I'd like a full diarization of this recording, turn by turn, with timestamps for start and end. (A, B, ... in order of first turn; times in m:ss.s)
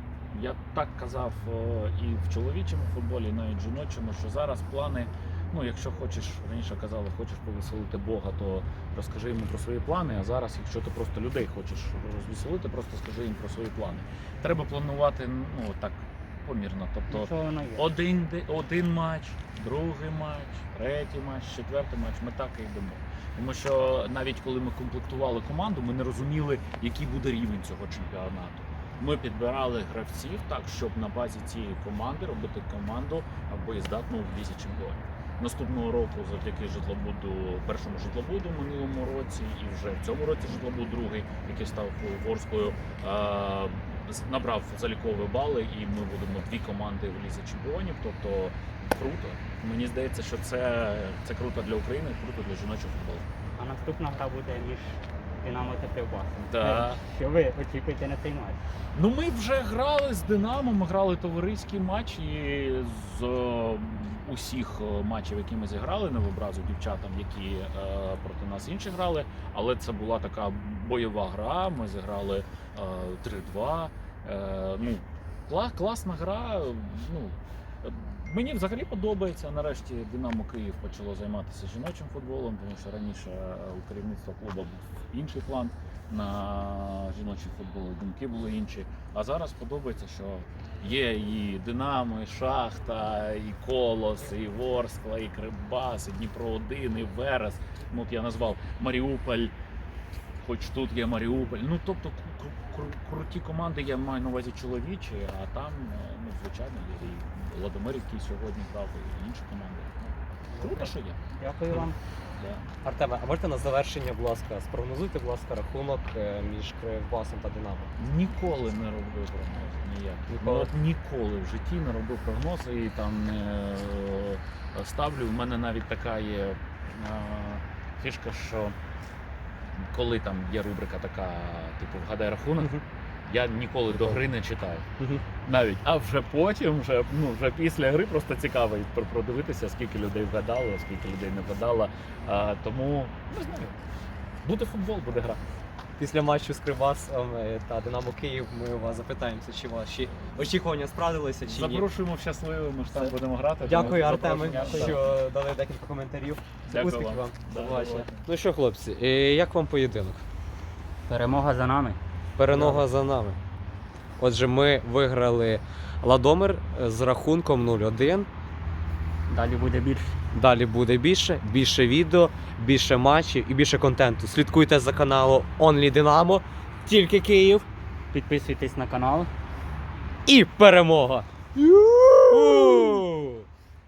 0:00.3-0:53.2 A
0:17.1-0:17.9 B
0:53.6-0:58.6 B
0:56.5-0:57.0 A
0:58.9-1:39.5 A
1:40.4-1:51.2 A
1:50.5-1:52.0 B
1:52.4-1:52.6 A
1:52.8-1:57.9 C
1:58.0-2:08.8 A
2:00.3-2:00.7 C
2:09.8-2:14.9 A
2:15.4-2:23.8 A
2:24.4-2:25.4 A
2:26.0-2:31.8 C
2:31.4-2:35.2 A
2:33.7-2:40.2 C
2:34.2-2:35.0 B
2:36.7-2:38.3 A
2:41.1-2:42.0 B
2:42.4-2:43.4 C
2:42.5-2:42.8 B
2:44.2-2:48.3 C
2:49.3-2:50.2 B
2:50.3-2:57.7 C
2:58.1-2:59.3 B
3:00.3-3:03.4 C
3:02.5-3:03.0 B